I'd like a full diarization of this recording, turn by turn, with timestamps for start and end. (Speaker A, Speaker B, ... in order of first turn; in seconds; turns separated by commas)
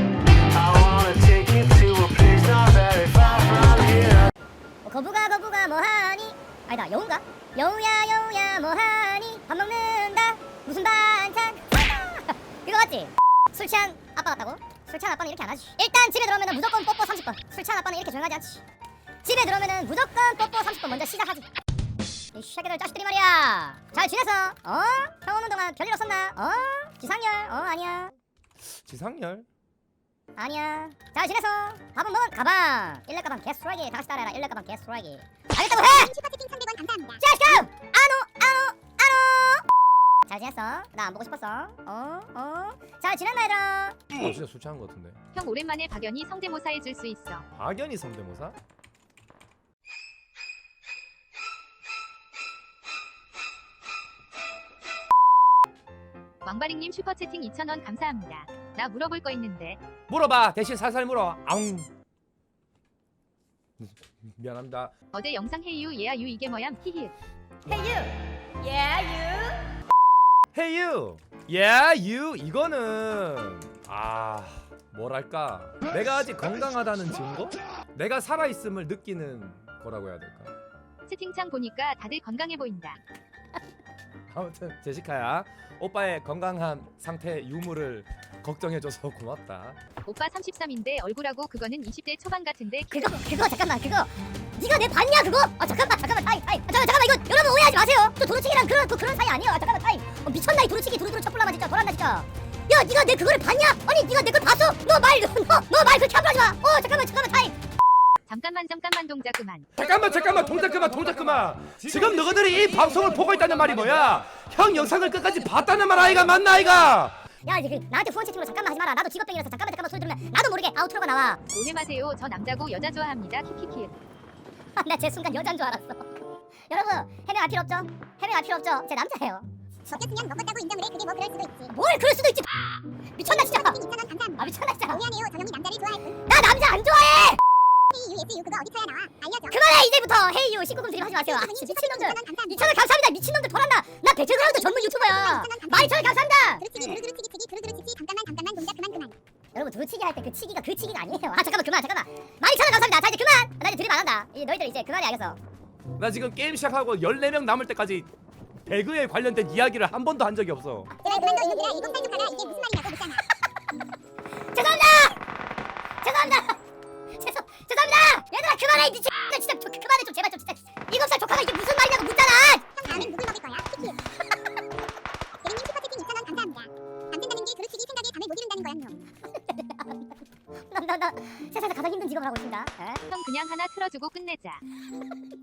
Speaker A: 1.0-3.3, Speaker B: 4.8-18.6, Speaker B: 19.2-21.5, Speaker B: 22.3-28.1, Speaker C: 28.7-29.5, Speaker B: 30.4-36.1, Speaker D: 35.8-37.2, Speaker B: 37.2-39.6, Speaker B: 40.3-44.0, Speaker C: 44.1-45.2, Speaker E: 45.3-47.5, Speaker C: 47.5-48.5, Speaker E: 56.4-59.8, Speaker C: 60.1-61.9, Speaker C: 63.8-64.9, Speaker E: 65.1-67.1, Speaker B: 67.7-69.6, Speaker C: 70.5-80.5, Speaker E: 81.1-83.0, Speaker C: 84.3-89.8, Speaker E: 90.0-93.2, Speaker B: 92.9-107.5, Speaker E: 108.2-109.7, Speaker C: 109.8-117.2, Speaker B: 117.4-121.4, Speaker E: 121.5-123.9, Speaker B: 124.8-126.1, Speaker B: 126.7-129.5, Speaker D: 129.9-131.7, Speaker B: 131.7-132.5, Speaker B: 133.2-133.8, Speaker D: 133.3-136.2, Speaker B: 134.4-135.1, Speaker B: 136.2-137.4, Speaker D: 137.9-139.6, Speaker B: 139.5-147.0, Speaker D: 141.2-142.7, Speaker D: 144.5-146.1, Speaker D: 146.6-149.1, Speaker B: 149.5-155.4, Speaker C: 156.0-158.1, Speaker C: 158.7-160.9, Speaker B: 161.0-162.7, Speaker D: 161.1-163.2, Speaker B: 164.5-165.2, Speaker B: 166.0-166.6, Speaker B: 167.2-173.1, Speaker D: 172.8-174.0, Speaker D: 175.4-179.1, Speaker B: 179.5-180.0, Speaker B: 180.7-183.0, Speaker E: 183.1-184.6